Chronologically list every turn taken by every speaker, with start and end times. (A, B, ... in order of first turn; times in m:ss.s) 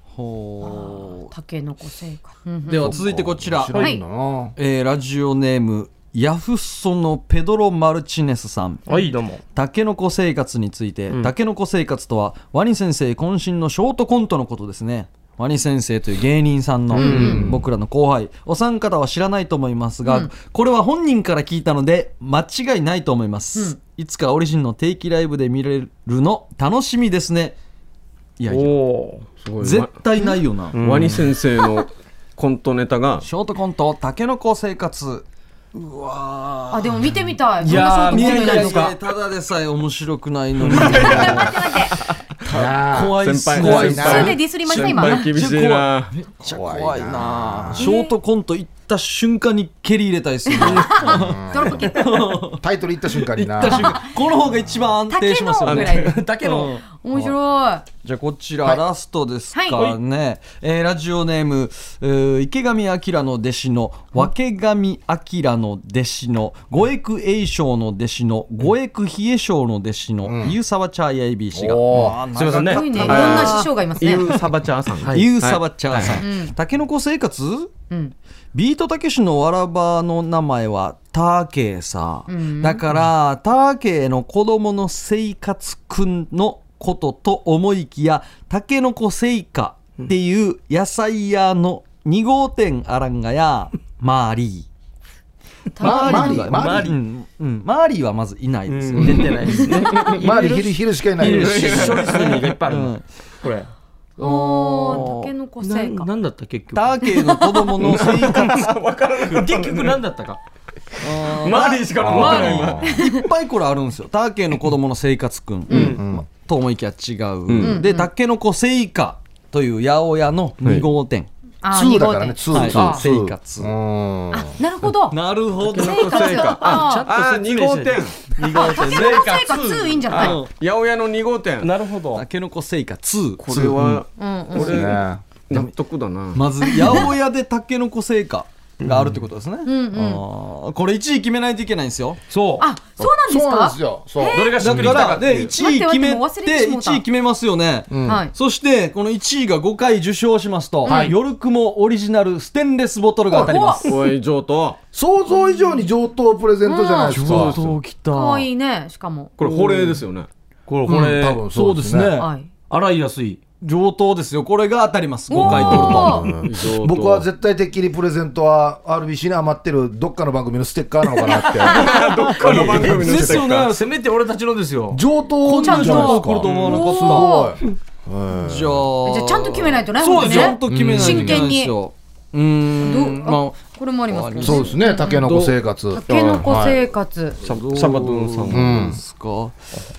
0:00.1-0:01.3 A
0:00.6-0:03.0 B
0:02.7-0:03.9 A
0:02.7-0:04.6 C
0:03.8-0:04.0 B
0:04.6-0:08.9 A
0:08.9-0:09.4 D
0:09.5-0:27.6 A
0:16.9-0:17.5 B
0:17.0-0:17.7 C
0:17.0-0:17.4 D
0:20.0-0:20.3 B
0:28.4-0:28.8 A
0:28.5-0:29.3 D
0:29.4-0:29.9 E
0:29.6-0:30.8 A
0:30.7-0:31.3 D
0:30.8-0:33.3 E
0:33.2-0:41.6 A
0:36.7-0:39.0 B
0:37.6-0:39.0 D
0:40.6-0:42.1 E
0:40.7-0:42.0 B
0:42.5-0:52.6 A
0:42.5-0:44.4 C
0:43.0-0:46.1 E
0:43.6-0:45.3 B
0:46.4-0:47.9 C
0:47.8-0:48.2 B
0:50.5-0:52.4 B
0:50.7-0:52.0 C
0:52.5-0:54.0 C
0:53.4-0:56.8 A
0:53.4-0:53.6 E
0:53.7-0:54.1 B
0:55.1-0:56.2 B
0:55.6-0:56.2 E
0:56.0-0:56.8 D
0:56.9-0:57.8 B
0:58.0-1:13.7 A
0:59.5-1:00.0 B
1:10.2-1:10.6 C
1:11.5-1:12.2 C
1:12.0-1:13.6 D
1:12.6-1:14.3 B
1:13.0-1:16.2 E
1:15.0-1:15.3 D
1:15.1-1:17.7 A
1:16.2-1:16.6 B
1:18.5-1:34.7 A
1:22.3-1:22.8 B
1:35.7-1:36.6 B
1:35.8-1:37.0 C
1:35.8-1:40.0 A
1:38.7-1:43.7 D
1:39.0-1:39.2 C
1:39.5-1:40.0 B
1:39.9-1:40.2 E
1:40.1-1:41.9 C
1:41.2-1:43.0 A
1:41.2-1:42.6 E
1:44.2-1:46.1 B
1:44.2-1:45.3 A
1:45.6-1:47.0 D
1:46.7-1:48.7 A
1:47.0-1:47.9 B
1:47.8-1:50.0 E
1:48.3-1:48.7 D
1:49.3-1:50.4 D
1:51.0-2:01.3 A
1:51.4-1:53.1 E
1:51.4-1:52.8 D
1:52.0-1:53.0 C
1:55.7-1:56.0 B
1:55.7-1:56.0 D
1:55.7-1:56.3 C
1:57.5-1:57.8 E
1:57.6-1:58.1 B
2:00.6-2:00.9 E
2:01.6-2:02.6 B
2:01.7-2:04.6 C
2:02.5-2:03.7 A
2:02.5-2:03.0 D
2:04.3-2:07.1 B
2:05.1-2:06.5 A
2:05.6-2:08.3 E
2:06.5-2:10.2 D
2:08.4-2:09.3 A
2:08.5-2:10.4 B
2:10.1-2:11.7 E
2:10.1-2:10.5 A
2:11.6-2:12.2 D
2:12.1-2:13.7 A
2:13.4-2:16.4 E
2:14.2-2:14.9 B
2:14.5-2:15.2 C
2:16.4-2:22.2 A
2:16.7-2:17.1 B
2:18.8-2:19.1 D
2:19.6-2:20.2 B
2:22.3-2:22.7 D
2:22.6-2:27.0 B
2:23.0-2:24.9 C
2:24.3-2:25.6 D
2:24.6-2:34.0 A
2:27.9-2:28.2 C
2:28.0-2:28.3 B
2:30.8-2:31.1 B
2:30.8-2:31.2 C
2:33.3-2:33.9 B
2:33.8-2:34.8 E
2:34.9-2:37.6 C
2:35.3-2:35.9 B
2:36.6-2:37.2 B
2:37.1-2:38.5 A
2:37.2-2:37.7 E
2:38.1-2:39.3 B
2:39.4-2:40.3 E
2:39.4-2:40.0 A
2:40.7-2:41.4 D
2:40.9-2:42.2 C
2:40.9-2:42.3 A
2:42.2-2:42.5 B
2:42.7-2:43.4 D
2:43.6-2:46.4 A
2:45.3-2:46.4 B
2:45.4-2:51.8 C
2:46.4-2:47.3 E
2:51.3-2:52.0 B
2:51.6-2:53.7 E
2:51.7-2:53.9 A
2:52.4-2:55.0 D
2:52.5-2:53.4 C
2:54.9-2:58.9 C
2:55.4-2:57.3 A
2:55.6-2:57.6 B
2:56.5-2:57.0 D
2:58.4-3:05.6 A
2:59.0-3:01.8 B
3:00.0-3:00.6 D
3:00.7-3:01.5 C
3:02.8-3:05.3 B
3:04.4-3:06.8 C
3:05.9-3:07.4 B
3:07.4-3:09.6 A
3:07.4-3:08.8 E
3:08.5-3:09.0 C